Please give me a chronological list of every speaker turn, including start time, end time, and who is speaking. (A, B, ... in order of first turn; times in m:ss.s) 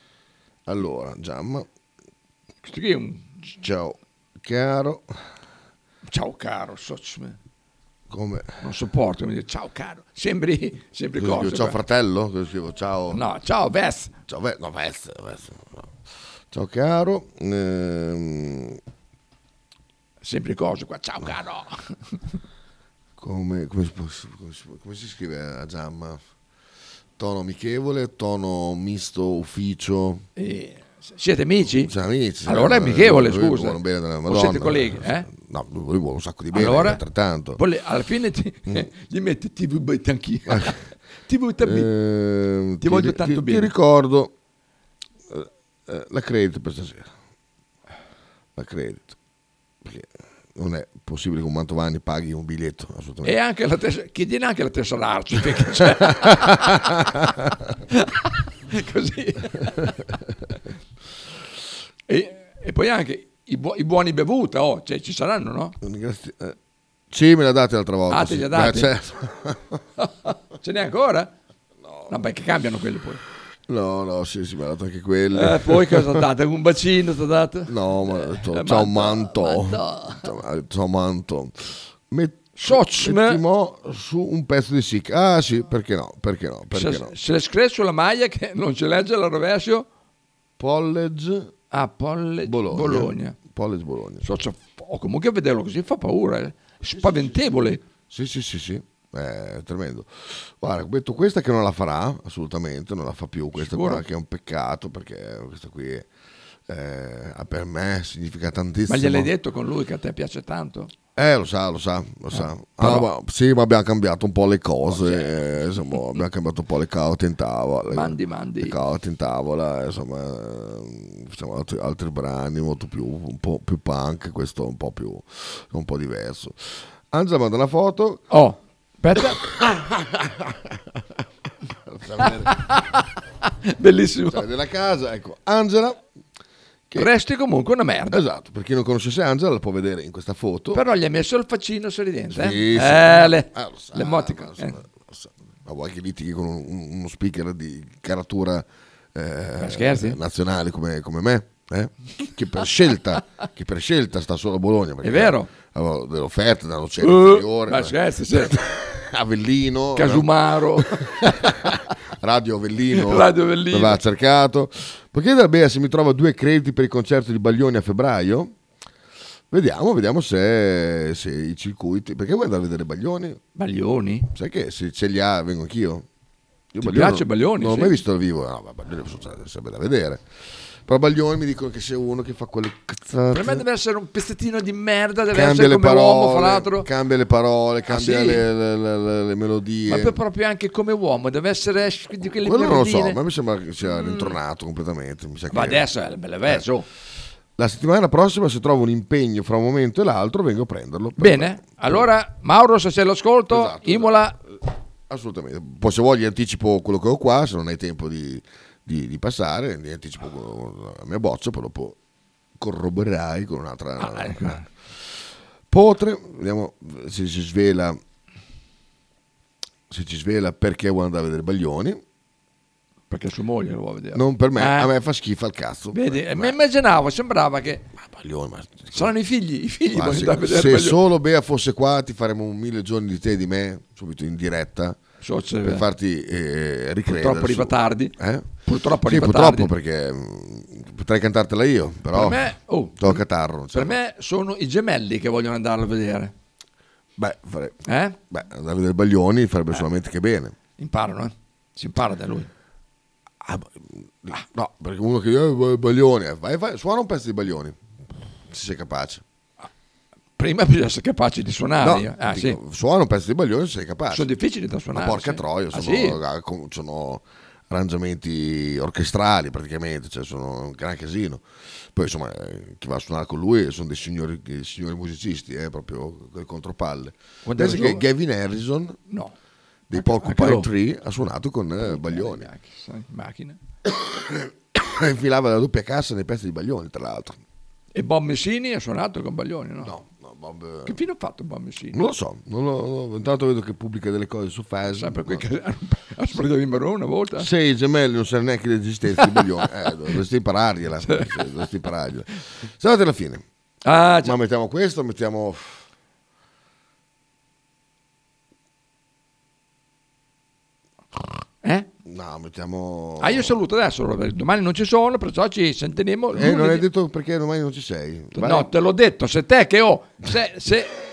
0:00.6-0:01.7 A
0:02.6-0:03.3 B
0:03.6-0:05.1 A
0:06.1-0:07.4 B
0:08.1-0:08.5 A
0:08.6-0:11.8 B
0:11.2-0:13.2 A
0:13.1-0:14.1 B
0:14.3-0:15.9 A
0:16.5-0:18.8 A
0:20.2-0:21.9 B
0:23.2-0:26.2 A
0:27.2-0:30.2 A
0:30.4-0:31.9 B
0:31.8-0:37.6 A
0:32.4-0:35.3 B
0:36.5-0:37.0 B
0:37.6-0:41.9 B
0:40.5-0:40.8 A
0:41.6-0:44.3 A
0:42.8-0:43.7 B
0:45.3-0:47.1 A
0:48.6-0:49.2 A
0:49.8-0:53.4 A
0:53.2-0:56.8 B
0:55.9-0:57.3 A
0:58.0-1:00.0 B
1:02.1-1:05.8 B
1:05.8-1:06.6 A
1:07.1-1:09.8 A
1:08.1-1:08.9 B
1:10.0-1:11.3 B
1:11.8-1:12.1 A
1:12.1-1:13.2 B
1:13.7-1:16.2 A
1:15.3-1:20.3 B
1:17.7-1:27.1 A
1:22.6-1:23.4 B
1:26.7-1:29.9 B
1:30.6-1:31.5 A
1:31.7-1:33.4 B
1:32.4-1:34.2 A
1:34.2-1:37.8 B
1:36.9-1:37.5 A
1:38.1-1:46.1 A
1:43.5-1:44.0 B
1:46.7-1:49.3 A
1:48.9-1:50.9 B
1:51.1-2:08.3 A
1:52.3-1:53.1 B
1:54.9-1:56.0 B
1:57.9-1:58.7 B
2:08.3-2:09.4 B
2:09.4-2:10.8 A
2:11.8-2:12.6 A
2:12.4-2:13.0 B
2:13.6-2:14.4 B
2:14.3-2:16.0 A
2:17.0-2:18.2 B
2:18.1-2:20.8 A
2:20.7-2:24.8 B
2:22.3-2:48.6 A
2:29.6-2:30.2 B
2:35.0-2:35.5 B
2:37.0-2:38.5 B
2:39.9-2:41.7 B
2:42.9-2:44.0 B
2:49.5-2:53.4 A
2:53.6-2:54.3 B
2:54.3-2:56.1 A
2:56.7-3:00.3 A
2:56.8-2:58.0 B
3:00.8-3:03.6 A
3:03.3-3:06.9 B
3:05.3-3:10.2 A
3:07.9-3:08.4 B
3:09.9-3:13.2 B
3:12.2-3:15.8 A
3:13.8-3:14.3 B
3:15.5-3:16.8 B
3:17.6-3:22.1 A
3:21.2-3:24.4 B
3:23.5-3:32.0 A
3:32.6-3:34.7 A
3:34.0-3:34.7 B
3:35.7-3:38.0 A
3:39.9-3:42.0 A
3:43.1-3:44.9 B
3:44.1-3:46.6 A
3:45.9-3:47.8 B
3:48.0-3:49.1 A
3:48.9-3:51.0 B
3:49.9-3:55.0 A
3:55.2-3:55.8 B
3:55.6-3:58.5 A
3:57.1-3:59.7 B
3:59.0-4:03.9 A
4:02.1-4:06.3 B
4:07.2-4:10.5 A
4:07.9-4:08.2 B
4:10.8-4:12.5 B
4:13.4-4:17.8 A
4:18.5-4:19.2 A
4:20.4-4:22.6 B
4:21.8-4:24.3 A
4:24.1-4:26.2 B
4:24.9-4:39.0 A
4:37.4-4:38.0 B
4:39.1-4:39.3 B
4:39.9-4:42.5 A
4:39.9-4:40.7 B
4:41.8-4:43.6 B
4:43.8-4:47.4 A
4:47.9-4:49.9 B
4:49.8-4:51.0 A
4:50.8-4:52.0 B
4:51.9-4:55.4 A
4:54.9-4:57.5 B
4:57.4-5:03.4 A
5:01.1-5:01.4 B
5:03.8-5:04.4 B
5:04.2-5:05.8 A
5:11.6-5:11.9 B
5:12.0-5:13.5 A
5:13.2-5:16.8 B
5:16.3-5:18.7 A
5:18.3-5:20.9 B